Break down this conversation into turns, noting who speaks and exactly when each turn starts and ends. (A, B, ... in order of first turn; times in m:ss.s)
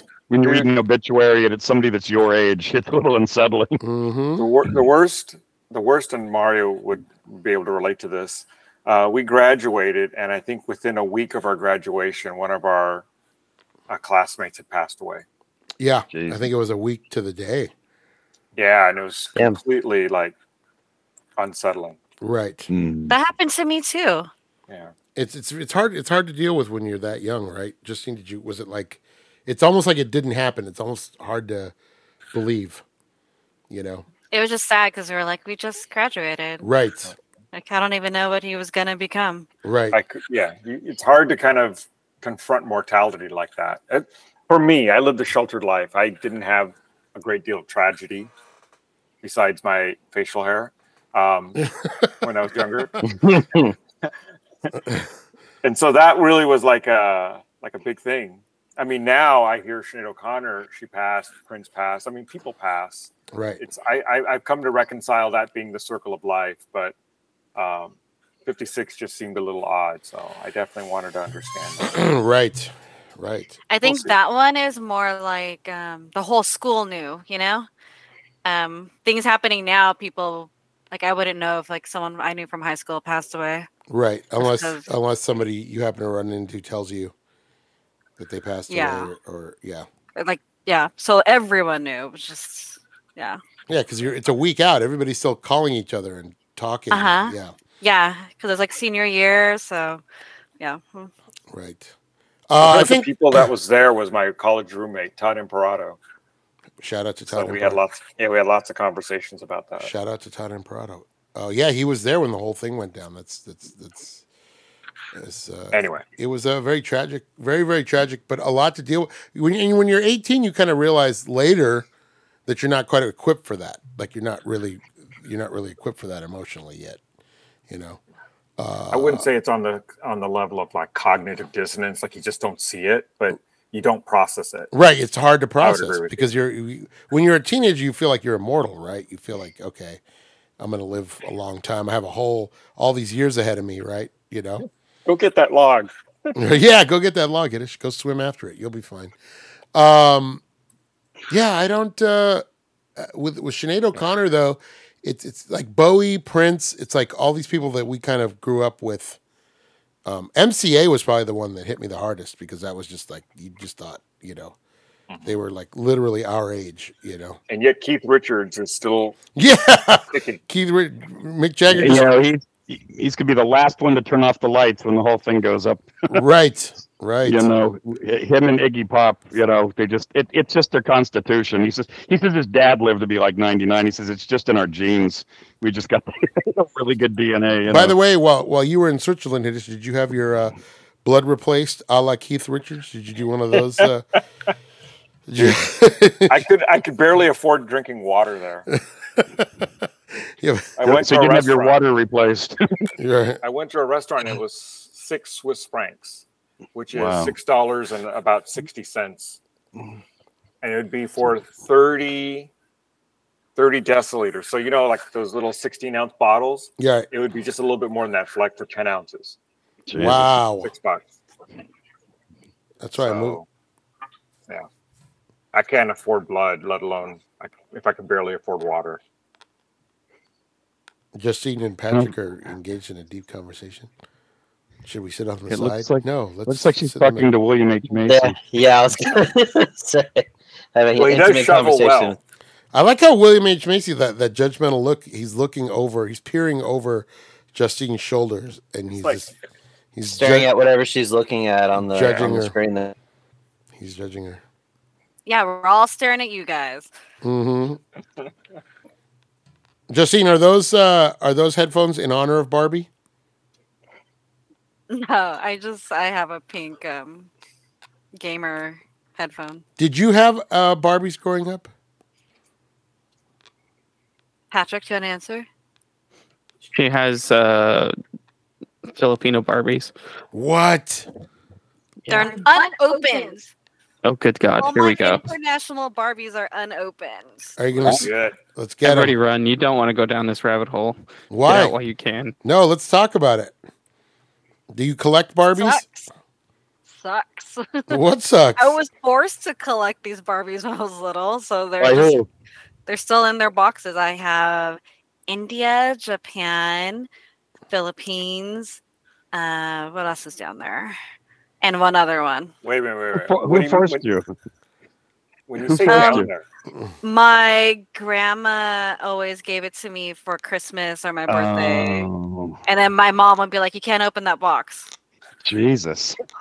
0:00.3-0:03.8 A
0:00.4-0:00.7 B
0:03.8-0:04.5 C
0:04.4-0:13.1 B
0:13.9-0:15.2 B
0:15.8-0:17.7 C
0:16.1-0:16.5 A
0:18.6-0:20.4 B
0:21.4-0:22.0 B
0:22.2-0:22.7 C
0:22.7-0:23.2 A
0:23.1-0:24.3 D
0:25.2-0:31.7 C
0:32.3-0:32.8 C
0:33.7-0:34.1 C
0:34.3-0:36.7 D
0:36.6-0:37.1 C
0:37.5-0:39.5 D
0:39.6-0:40.0 C
0:39.9-0:48.3 B
0:49.2-0:51.6 B
0:52.2-0:53.0 B
0:53.0-0:53.7 E
0:55.6-1:07.0 B
1:03.3-1:03.6 C
1:07.6-1:11.9 B
1:11.8-1:13.6 C
1:13.7-1:17.7 D
1:13.8-1:14.1 B
1:18.4-1:23.7 D
1:23.9-1:27.1 C
1:24.4-1:24.9 D
1:28.2-1:29.9 C
1:28.7-1:29.1 D
1:30.2-1:33.4 D
1:33.7-1:37.6 C
1:36.9-1:40.0 D
1:40.6-1:41.1 D
1:41.5-1:41.9 C
1:42.5-1:43.1 C
1:42.6-1:46.0 B
1:46.8-1:47.8 C
1:47.3-1:49.9 B
1:49.8-1:54.2 C
1:55.1-2:01.9 C
1:55.7-1:56.1 B
2:02.5-2:07.0 C
2:07.7-2:08.0 C
2:08.6-2:09.3 C
2:08.9-2:14.7 B
2:14.7-2:20.0 C
2:15.6-2:16.2 B
2:20.6-2:24.6 C
2:25.1-2:26.3 B
2:26.4-2:29.1 C
2:29.7-2:30.4 C
2:31.3-2:32.4 C
2:33.0-2:39.2 C
2:40.1-2:44.6 C
2:45.1-2:45.4 B
2:45.2-2:47.4 C
2:47.5-2:49.2 B
2:49.4-2:52.0 C
2:50.1-2:50.4 B
2:51.7-2:56.1 A
2:56.1-2:57.5 C
2:57.2-3:07.9 A
3:07.7-3:14.0 C
3:15.3-3:16.4 C
3:16.3-3:18.7 B
3:19.2-3:19.7 C
3:20.4-3:20.8 C
3:20.8-3:21.8 B
3:20.8-3:22.9 A
3:23.0-3:23.4 C
3:23.4-3:29.4 B
3:26.9-3:27.4 A
3:30.6-3:32.5 B
3:33.6-3:39.4 B
3:36.8-3:37.1 C
3:39.9-3:40.4 A
3:40.0-3:40.7 C
3:40.6-3:41.0 B
3:42.8-3:43.4 C
3:43.0-3:43.5 B
3:45.5-3:49.0 B
3:51.2-3:53.9 C
3:54.8-3:57.3 C
3:55.5-3:58.4 A
3:58.1-4:02.2 E
4:01.0-4:02.2 B
4:02.7-4:09.3 C
4:09.0-4:09.3 B
4:10.0-4:10.5 C
4:10.1-4:13.0 E
4:11.9-4:12.5 C
4:13.8-4:14.4 C
4:15.3-4:16.9 D
4:17.2-4:17.8 C
4:19.9-4:22.9 C
4:24.9-4:27.3 D
4:28.2-4:29.6 D
4:29.8-4:31.7 C
4:34.5-4:35.5 D
4:36.7-4:37.9 F
4:38.9-4:39.9 F
4:40.3-4:41.1 C
4:42.0-4:42.4 F
4:42.1-4:43.5 D
4:44.0-4:45.3 F
4:44.6-4:47.6 D
4:47.6-4:49.1 C
4:48.0-4:48.4 B
4:48.8-4:52.4 F
4:51.3-4:51.8 C
4:52.4-4:53.6 C
4:54.7-4:55.8 C
4:55.6-4:56.1 D
4:56.9-4:58.0 D
4:57.9-4:58.8 C
4:58.6-5:02.2 D
5:01.8-5:02.3 A
5:02.9-5:07.1 D
5:07.7-5:08.8 D
5:09.3-5:11.0 D
5:11.6-5:12.5 D
5:12.6-5:14.0 B
5:13.2-5:14.3 A
5:15.5-5:16.4 B
5:15.6-5:16.3 A
5:15.9-5:16.3 D
5:17.0-5:22.1 D
5:21.3-5:22.6 A
5:22.7-5:24.9 D
5:25.4-5:26.2 A